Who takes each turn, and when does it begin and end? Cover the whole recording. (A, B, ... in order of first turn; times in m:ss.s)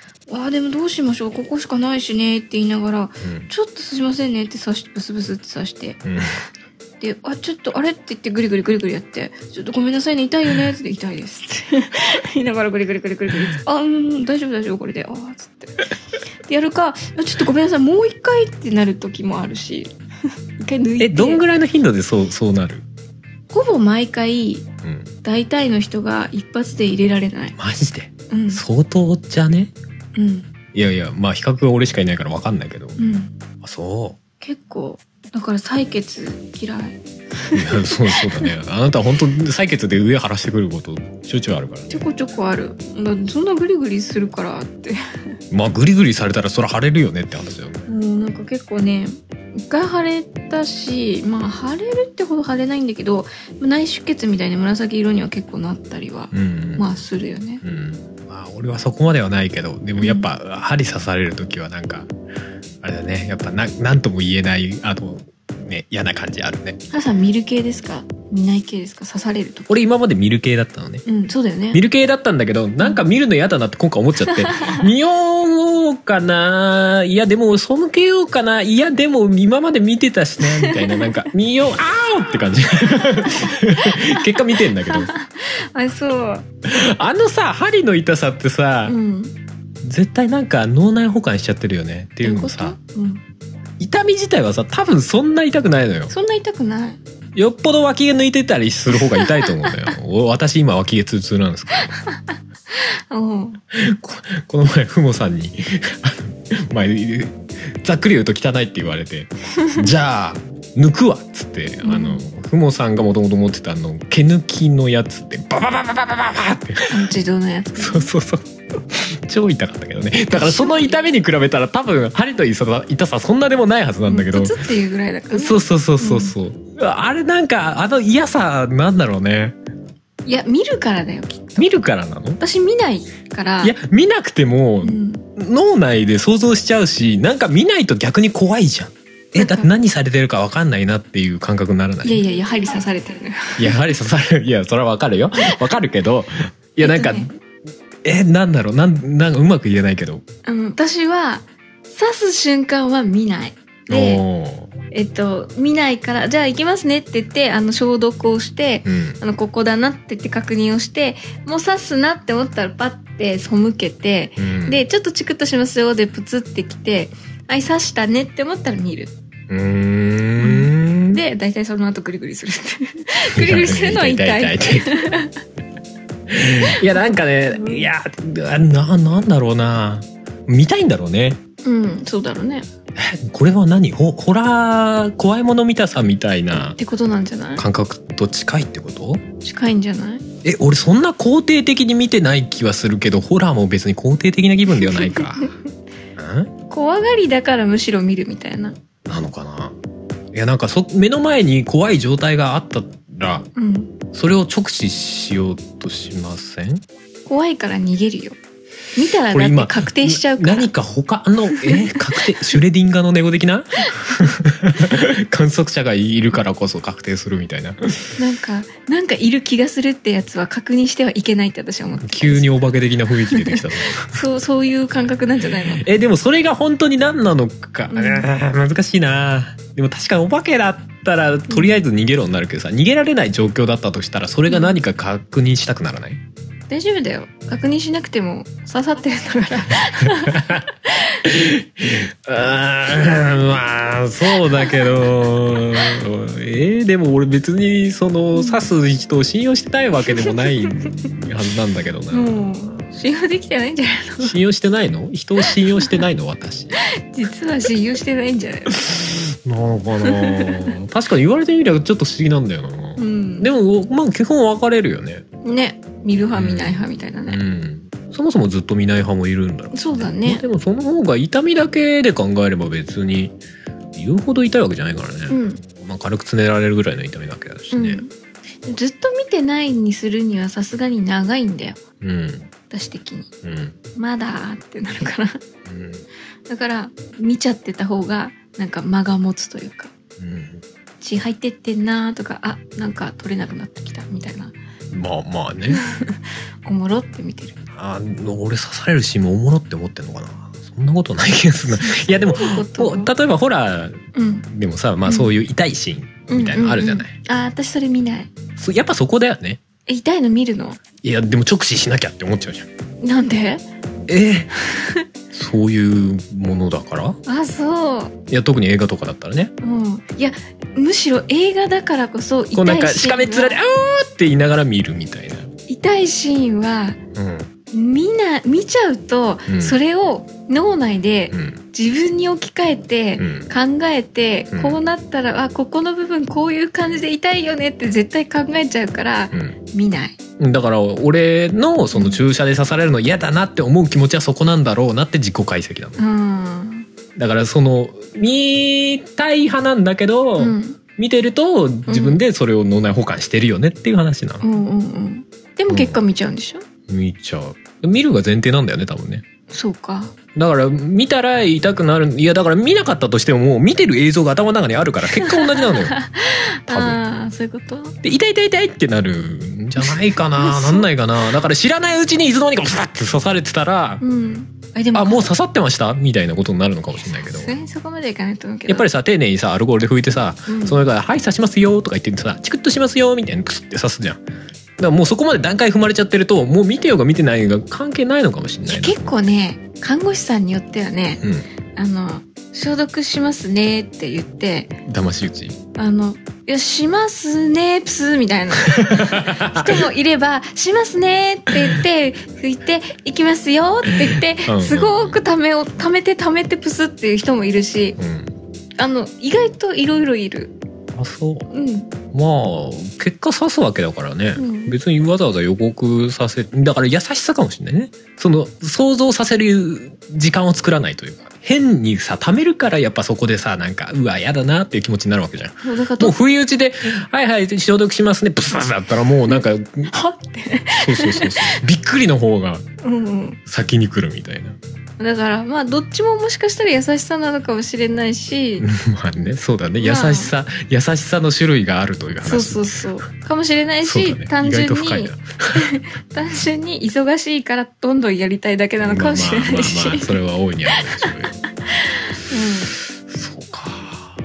0:00.3-0:06.0 A
0:03.2-0:03.5 B
0:06.0-0:06.4 B
0:07.0-0:15.9 A
0:16.5-0:20.0 A
0:20.6-0:21.4 A
0:21.0-0:22.8 B
0:23.5-0:24.7 A
0:24.8-0:25.1 B
0:25.2-0:27.6 A
0:27.6-0:29.7 B
0:28.3-0:28.6 A
0:30.2-0:30.5 A
0:30.7-0:33.0 B
0:33.0-0:33.3 A
0:33.6-0:34.2 B
0:34.4-0:38.5 A
0:37.5-0:42.0 B
0:41.9-0:45.3 A
0:45.5-0:47.9 B
0:47.9-0:57.6 A
0:56.3-0:57.0 B
0:57.6-1:02.1 B
1:00.0-1:00.3 A
1:02.8-1:06.8 B
1:06.9-1:09.8 A
1:09.7-1:11.0 B
1:11.0-1:11.8 A
1:11.7-1:25.1 B
1:14.3-1:14.8 A
1:20.6-1:21.1 A
1:23.2-1:26.5 A
1:26.6-1:29.0 B
1:28.8-1:29.3 A
1:29.8-1:32.8 B
1:32.2-1:33.2 A
1:33.8-1:36.1 B
1:36.1-1:37.0 A
1:37.4-1:41.9 B
1:39.2-1:39.5 A
1:42.7-1:43.6 A
1:43.7-1:57.0 B
1:51.8-1:52.2 A
1:56.9-1:58.1 A
1:57.8-2:04.6 B
2:00.3-2:01.0 A
2:04.1-2:06.4 A
2:05.3-2:09.6 B
2:10.2-2:11.8 A
2:11.6-2:12.4 B
2:12.4-2:13.8 A
2:13.6-2:22.2 B
2:14.8-2:15.2 A
2:19.4-2:19.7 A
2:22.0-2:23.8 A
2:23.6-2:27.3 B
2:26.8-2:27.3 A
2:28.0-2:30.2 B
2:30.4-2:34.2 A
2:33.9-2:34.7 B
2:34.9-2:49.1 A
2:38.8-2:39.2 B
2:44.4-2:44.8 B
2:49.5-2:51.2 B
2:50.4-2:55.4 A
2:53.3-2:55.0 B
2:56.3-3:01.4 B
2:56.9-2:57.9 A
3:01.6-3:02.7 A
3:03.0-3:06.8 B
3:06.5-3:07.6 A
3:07.6-3:09.2 B
3:09.4-3:10.2 A
3:10.4-3:15.5 B
3:14.8-3:15.5 A
3:16.2-3:16.5 B
3:16.7-3:18.8 A
3:19.1-3:19.8 B
3:20.3-3:23.5 B
3:23.6-3:23.9 A
3:24.1-3:26.8 B
3:27.2-3:28.4 A
3:29.0-3:30.7 A
3:29.3-3:38.2 B
3:31.5-3:32.0 A
3:38.2-3:42.5 A
3:42.0-3:44.2 B
3:43.3-3:45.8 A
3:45.7-3:56.2 B
3:47.9-3:48.3 A
3:51.5-3:51.8 A
3:54.5-3:54.8 A
3:56.7-4:01.2 A
4:00.1-4:00.7 B
4:01.2-4:12.8 B
4:04.6-4:05.0 A
4:08.3-4:08.6 A
4:10.1-4:10.9 A
4:12.1-4:14.3 A
4:14.2-4:16.8 B
4:15.5-4:15.9 A
4:17.0-4:18.8 A
4:18.8-4:25.2 B
4:20.0-4:20.7 A
4:23.0-4:23.5 A
4:25.4-4:27.4 A
4:26.3-4:33.4 B
4:29.7-4:30.4 A
4:33.9-4:38.0 B
4:35.3-4:35.6 A
4:37.7-4:38.1 A
4:38.6-4:41.8 A
4:42.0-4:42.5 B
4:42.7-4:43.3 A
4:43.4-4:43.8 B
4:44.0-4:45.4 A
4:45.7-4:46.1 B
4:46.5-4:49.9 A
4:50.2-4:50.6 B
4:51.0-4:54.6 A
4:54.9-4:55.8 B
4:55.7-4:57.6 A
4:57.7-5:07.2 B
5:01.8-5:03.1 A
5:04.2-5:04.5 A
5:05.0-5:05.3 A
5:06.3-5:08.3 A
5:08.6-5:09.6 B
5:09.9-5:10.8 A
5:11.0-5:12.7 B
5:13.0-5:13.6 A
5:14.1-5:14.6 B
5:14.7-5:15.0 A
5:15.3-5:17.2 B
5:17.3-5:18.2 A
5:18.3-5:19.5 B
5:19.6-5:23.6 A
5:22.5-5:25.5 B
5:25.7-5:27.0 A
5:27.2-5:27.5 B
5:27.7-5:40.2 A
5:29.5-5:29.8 B
5:31.3-5:31.6 B
5:33.2-5:33.5 B
5:34.5-5:34.8 B
5:40.4-5:46.0 B
5:41.9-5:42.2 A
5:46.0-5:46.9 A
5:47.2-5:54.5 B
5:50.4-5:50.8 A
5:51.9-5:52.2 A
5:54.4-5:56.6 A
5:55.7-5:56.0 B
5:56.9-5:59.2 B
5:59.5-6:00.2 A
6:00.4-6:06.0 B
6:05.2-6:08.0 A
6:06.7-6:07.0 B
6:08.0-6:14.0 B
6:09.8-6:10.9 A
6:14.0-6:15.3 A
6:14.9-6:17.6 B
6:17.0-6:18.9 A
6:18.7-6:24.2 B
6:20.5-6:20.8 A
6:24.8-6:29.2 B
6:28.7-6:31.2 A
6:31.2-6:31.5 B
6:31.8-6:34.8 A
6:34.9-6:35.6 B
6:35.8-6:48.0 A
6:38.6-6:39.8 B
6:44.4-6:45.2 B
6:48.0-6:48.3 B
6:48.8-6:50.6 A
6:50.9-6:51.5 B
6:51.5-6:51.9 A
6:52.1-7:09.9 B
6:54.4-6:54.8 A
7:05.6-7:06.2 A
7:09.9-7:11.6 A
7:10.7-7:12.7 B
7:12.8-7:13.4 A
7:13.5-7:14.6 B
7:15.0-7:18.7 A
7:18.6-7:22.8 B
7:19.8-7:20.3 A
7:22.2-7:30.2 A
7:23.8-7:25.7 B
7:28.8-7:31.4 B
7:30.7-7:31.1 A
7:31.7-7:32.7 A
7:32.2-7:34.2 B